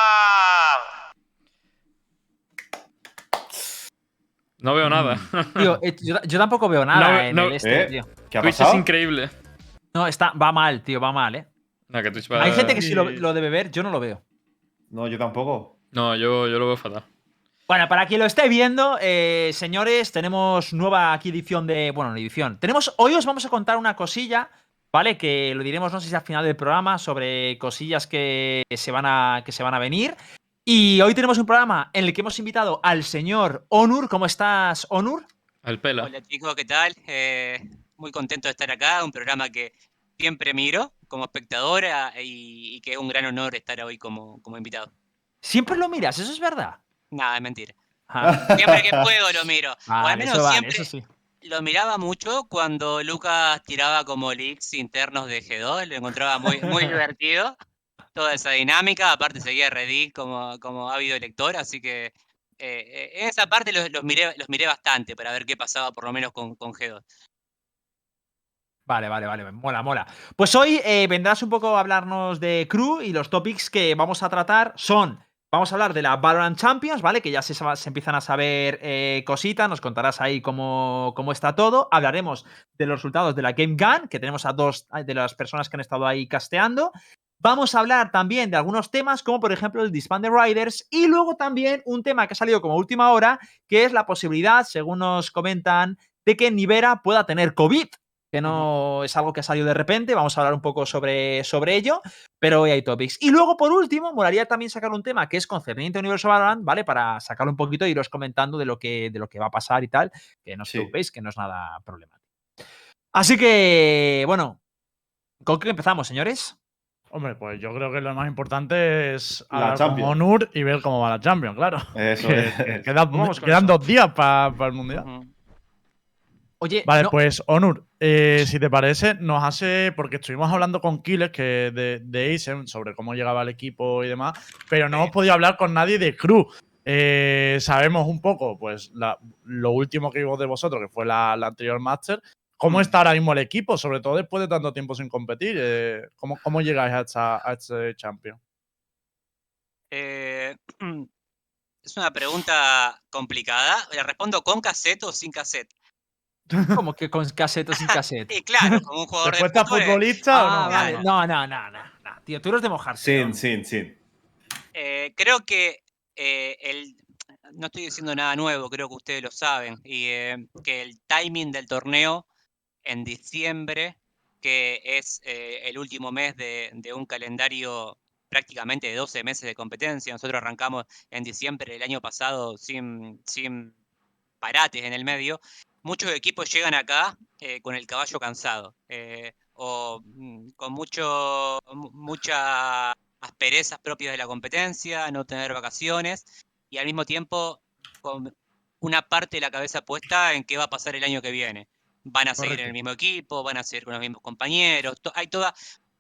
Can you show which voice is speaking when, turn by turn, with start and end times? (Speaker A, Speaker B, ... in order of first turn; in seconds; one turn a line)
Speaker A: 4.6-5.8
Speaker B: 4.9-5.2
Speaker C: 5.6-8.1
Speaker A: 6.9-7.6
Speaker B: 7.6-8.9
Speaker A: 8.4-9.3
Speaker C: 9.9-11.5
Speaker A: 11.9-12.8
Speaker C: 12.3-14.2
Speaker D: 12.4-13.3
Speaker B: 14.9-15.7
Speaker A: 15.9-17.1
Speaker C: 17.7-35.3
Speaker A: 35.6-36.1
Speaker E: 36.0-44.9
Speaker C: 45.4-46.8
Speaker E: 47.1-47.7
Speaker C: 48.1-48.5
Speaker B: 48.2-49.0
Speaker E: 48.5-50.9
Speaker C: 49.9-51.0
Speaker E: 51.4-57.5
Speaker E: 58.1-67.0
Speaker C: 68.9-112.1
Speaker B: 110.6-110.9
Speaker C: 113.1-114.6
Speaker C: 115.4-116.5
Speaker D: 117.1-125.0
Speaker B: 119.5-120.2
Speaker B: 121.9-122.9
Speaker C: 123.1-123.8
Speaker E: 124.9-125.3
Speaker C: 126.6-127.1
Speaker D: 126.8-148.4
Speaker C: 142.7-142.9
Speaker E: 149.9-151.1
Speaker E: 151.8-155.7
Speaker C: 156.7-158.8
Speaker E: 158.3-160.1
Speaker D: 159.2-160.8
Speaker C: 160.3-163.4
Speaker E: 160.6-161.1
Speaker B: 163.0-164.0
Speaker E: 164.7-167.0
Speaker E: 167.5-172.2
Speaker E: 172.8-183.7
Speaker E: 184.4-205.5